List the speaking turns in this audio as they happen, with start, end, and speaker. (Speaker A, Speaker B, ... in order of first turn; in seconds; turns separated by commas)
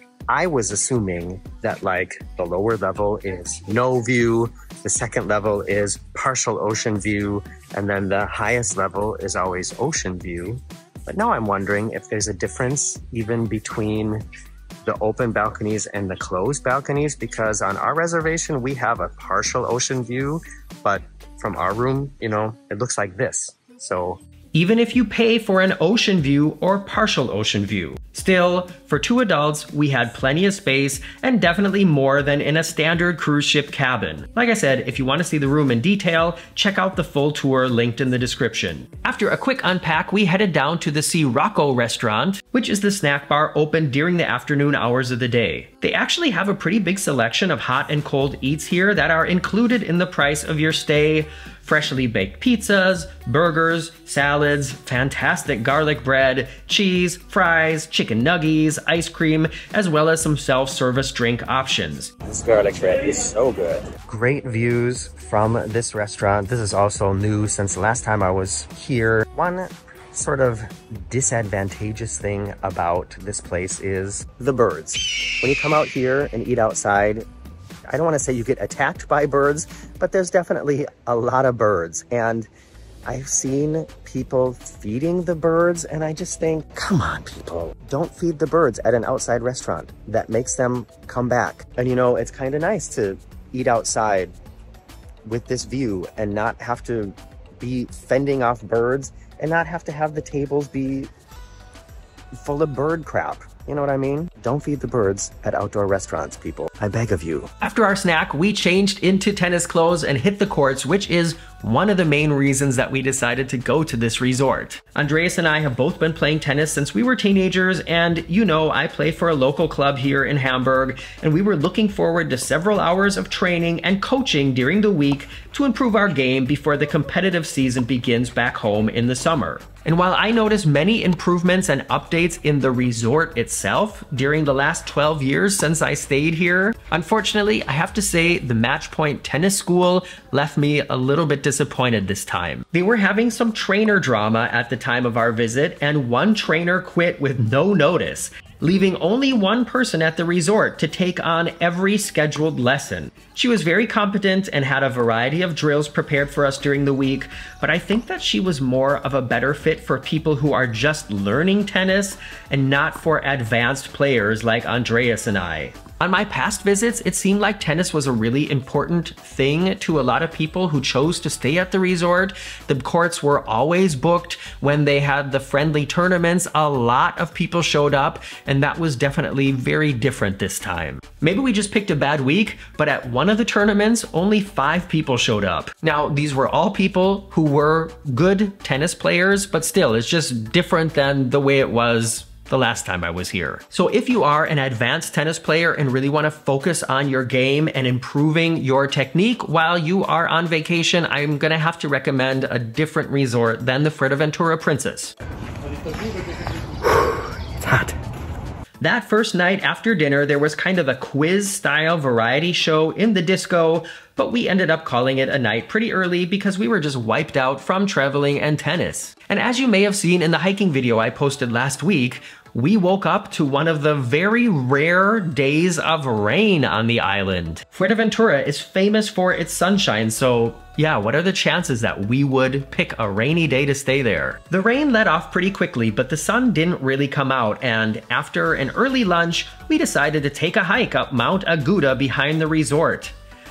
Speaker A: 0.3-14.2, Speaker A: 14.8-24.2, Speaker B: 24.5-62.1, Speaker A: 62.2-77.2, Speaker A: 77.9-82.5, Speaker B: 82.2-82.4, Speaker A: 83.1-88.5, Speaker B: 87.7-92.8, Speaker A: 89.1-91.7, Speaker A: 92.3-94.3, Speaker A: 95.2-101.1, Speaker A: 102.4-107.5, Speaker B: 107.6-205.1, Speaker A: 206.8-208.0, Speaker B: 208.8-243.1